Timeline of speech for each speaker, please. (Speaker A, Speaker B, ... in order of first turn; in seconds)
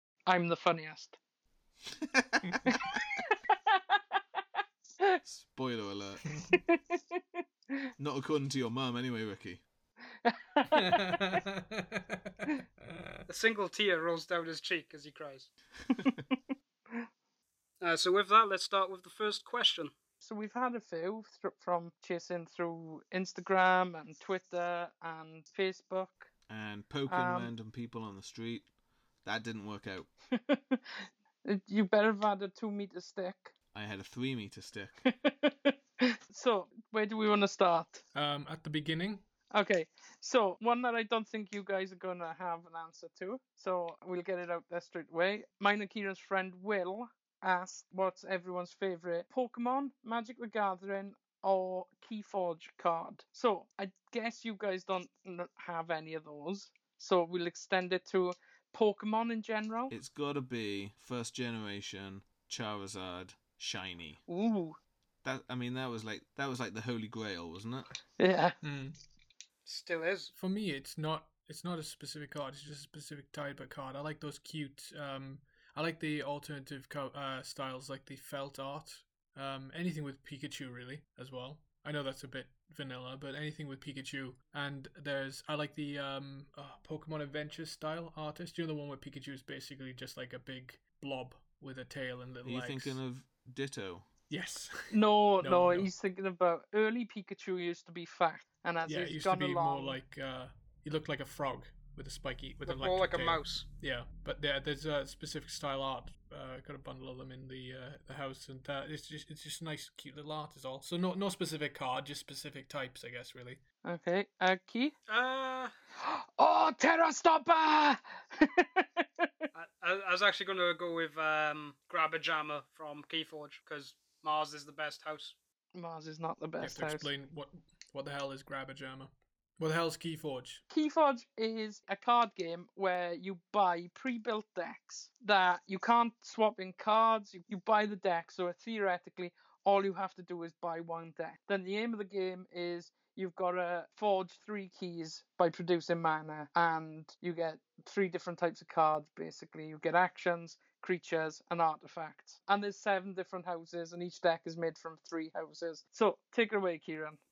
Speaker A: 0.3-1.2, 2.7-4.2, 6.5-7.9, 10.2-11.4, 15.9-16.4, 20.2-26.3, 27.1-27.5, 30.3-33.5, 35.0-38.0, 39.5-59.9, 64.3-64.8, 68.2-68.6, 94.9-100.0, 113.8-114.9, 116.0-119.4, 125.8-127.1, 130.7-157.2
Speaker B: 1.9-3.0, 5.2-6.2, 8.0-9.6, 26.5-28.7, 29.2-30.1, 33.7-35.0, 59.9-64.2, 65.2-67.9, 92.4-94.1
Speaker C: 6.3-6.6, 10.7-13.3, 38.1-39.2, 68.6-69.0, 70.4-93.0, 94.3-95.9, 98.9-113.6, 126.6-130.6
Speaker D: 13.3-15.5, 17.8-19.9, 69.7-70.3, 102.6-103.6, 115.1-115.7, 119.5-125.3